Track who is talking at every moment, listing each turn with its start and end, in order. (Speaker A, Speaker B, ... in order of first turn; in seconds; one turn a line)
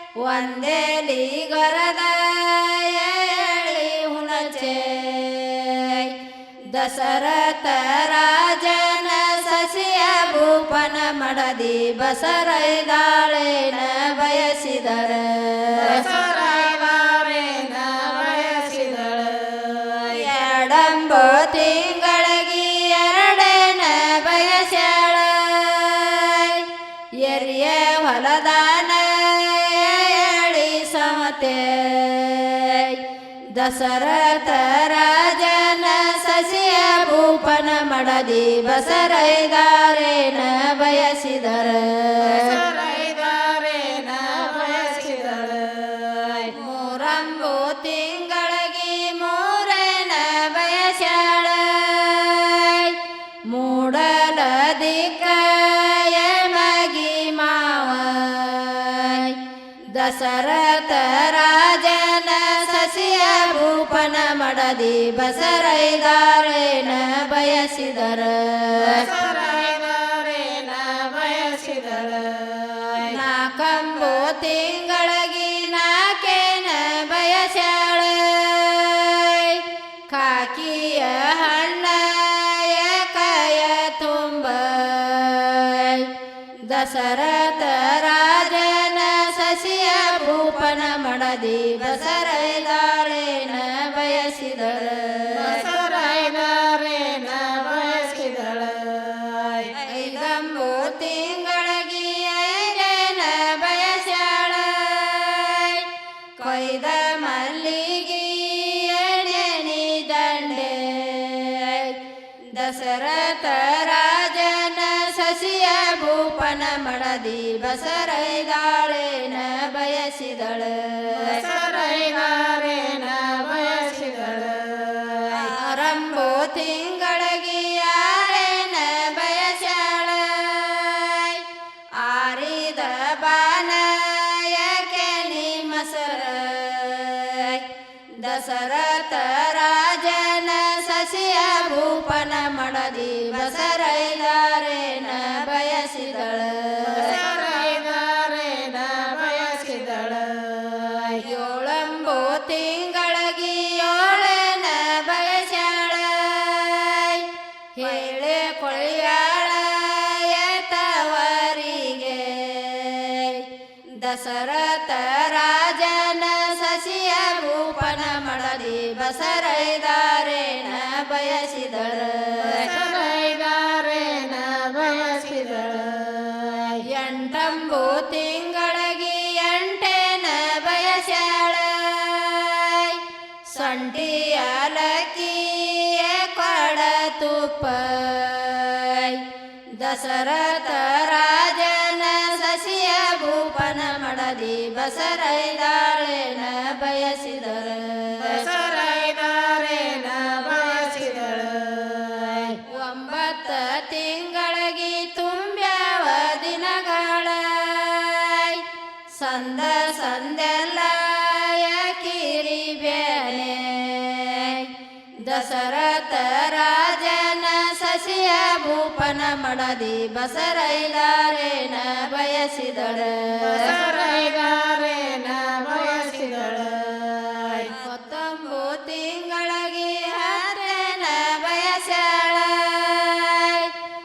Speaker A: 0.2-6.2
Speaker A: 6.7-16.1
Speaker B: 15.7-20.3
Speaker A: 20.1-26.7
Speaker A: 27.2-33.0
Speaker A: 33.5-42.6
Speaker B: 42.2-46.5
Speaker A: 46.5-53.0
Speaker A: 53.5-59.4
Speaker A: 59.9-69.1
Speaker B: 68.7-73.2
Speaker A: 73.1-86.1
Speaker A: 86.7-95.6
Speaker B: 95.3-99.7
Speaker A: 99.7-112.0
Speaker A: 112.5-121.5
Speaker B: 121.1-125.5
Speaker A: 125.4-131.4
Speaker A: 132.0-137.7
Speaker A: 138.2-147.2
Speaker B: 146.8-151.2
Speaker A: 151.2-172.7
Speaker B: 172.4-176.8
Speaker A: 176.9-189.2
Speaker A: 189.8-198.5
Speaker B: 198.2-202.6
Speaker A: 202.7-223.8
Speaker B: 223.4-227.7
Speaker A: 227.7-233.7